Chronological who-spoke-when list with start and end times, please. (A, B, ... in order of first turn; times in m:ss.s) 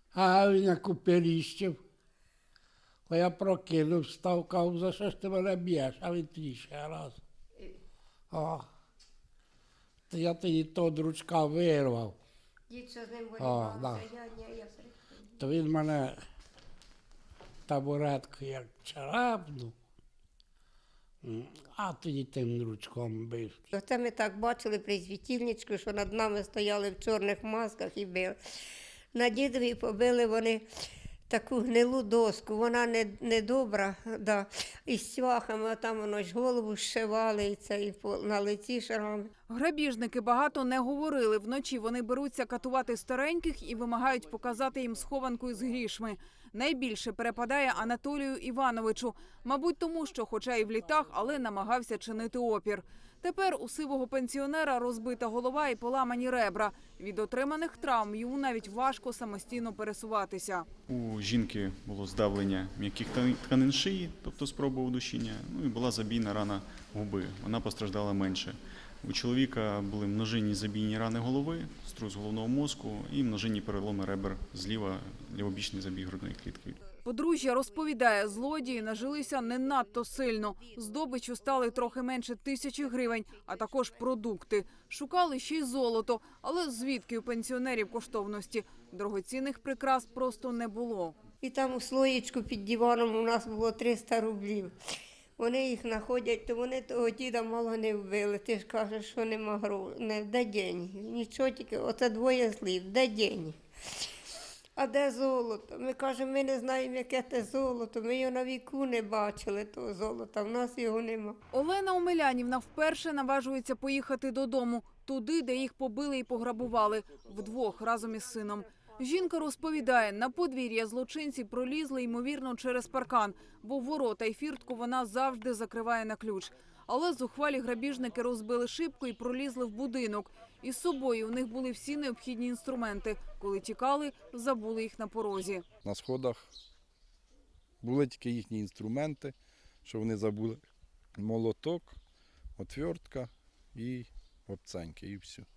0:00.1-0:01.8 A
0:03.1-0:07.2 A
0:08.3-0:08.6 A
0:10.1-0:12.1 A
0:12.7-0:15.3 B
0:13.4-0:14.1 A
0:15.4-0:16.2 A
0:17.7-0:19.7 A
0:21.2-0:23.6 A
0:23.7-0:28.4 B
0:29.1-0:30.6 B
0:31.3-0:39.3 B
0:39.5-1:00.6 C
1:00.9-1:16.8 D
1:17.0-1:31.2 C
1:18.1-1:19.5 B
1:31.4-1:34.7 B
1:35.4-1:43.6 B
1:44.8-1:51.4 B
1:51.5-2:15.6 C
2:15.8-2:16.5 E
2:17.8-2:20.6 E
2:21.2-2:22.0 E
2:22.6-2:25.5 E